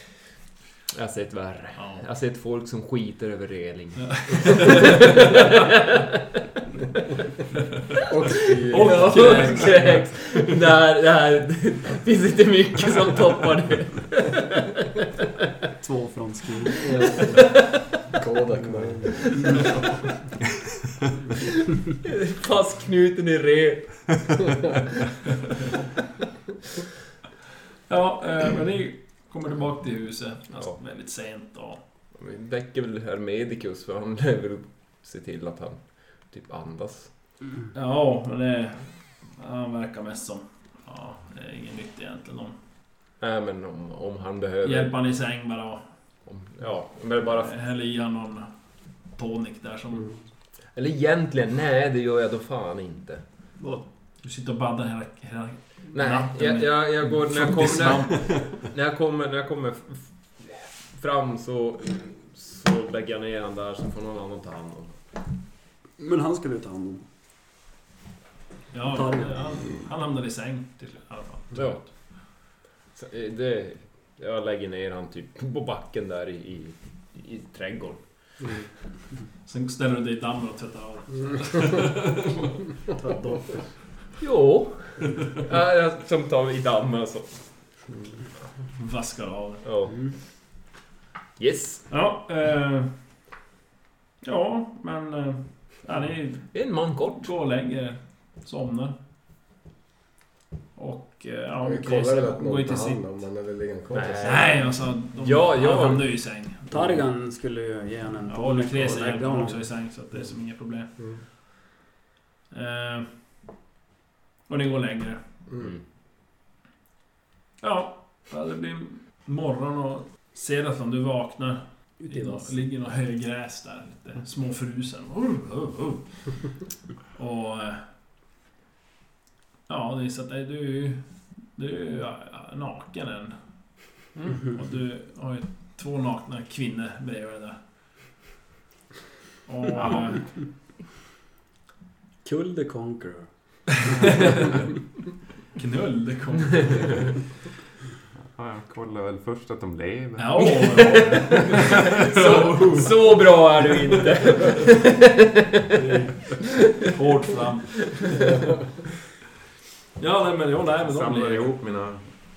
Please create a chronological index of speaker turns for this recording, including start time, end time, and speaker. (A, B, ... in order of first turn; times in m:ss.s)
0:00.9-0:06.2 A
0:01.8-0:02.0 B
0:04.0-0:05.0 B
0:08.1-0:09.7 C
0:08.2-0:15.0 A
0:08.6-0:10.1 B
0:15.8-0:16.9 D
0:16.8-0:17.3 C
0:17.2-0:17.7 A
0:18.2-0:19.5 C
0:19.2-0:19.5 A
0:22.0-0:24.5 A
0:27.9-0:31.8 B
0:32.1-0:37.1 A
0:37.7-0:42.5 B
0:43.2-0:44.9 A
0:44.6-0:45.8 B
0:46.2-0:47.5 A
0:47.3-0:48.5 B
0:49.1-0:50.1 B
0:50.7-0:53.2 A
0:54.2-0:58.4 B
0:55.9-1:05.0 A
1:06.0-1:07.0 D
1:08.7-1:11.7 B
1:08.9-1:09.8 D
1:11.5-1:11.9 A
1:12.9-1:18.6 A
1:19.4-1:22.6 B
1:23.0-1:23.6 D
1:24.2-1:27.4 A
1:28.8-1:29.6 B
1:29.6-1:30.0 A
1:31.4-1:31.8 A
1:31.9-1:32.9 B
1:34.2-1:36.6 B
1:36.5-1:37.3 A
1:37.2-1:39.0 B
1:40.7-1:43.0 B
1:41.6-1:44.4 C
1:43.9-1:46.1 A
1:44.2-1:46.8 B
1:46.7-1:49.6 D
1:48.3-1:50.9 B
1:52.5-1:53.1 B
1:54.5-1:55.2 B
1:57.6-2:06.0 B
2:02.0-2:02.4 D
2:07.2-2:07.8 B
2:09.7-2:11.0 B
2:11.6-2:13.4 B
2:14.5-2:17.6 B
2:19.4-2:20.2 B
2:22.2-2:23.3 D
2:24.1-2:24.4 D
2:25.5-2:27.0 B
2:28.3-2:31.0 E
2:30.2-2:32.9 B
2:30.4-2:35.9 A
2:31.7-2:32.6 E
2:35.8-2:38.3 B
2:36.4-2:36.9 A
2:37.7-2:38.1 A
2:40.0-2:41.5 B
2:40.8-2:42.0 E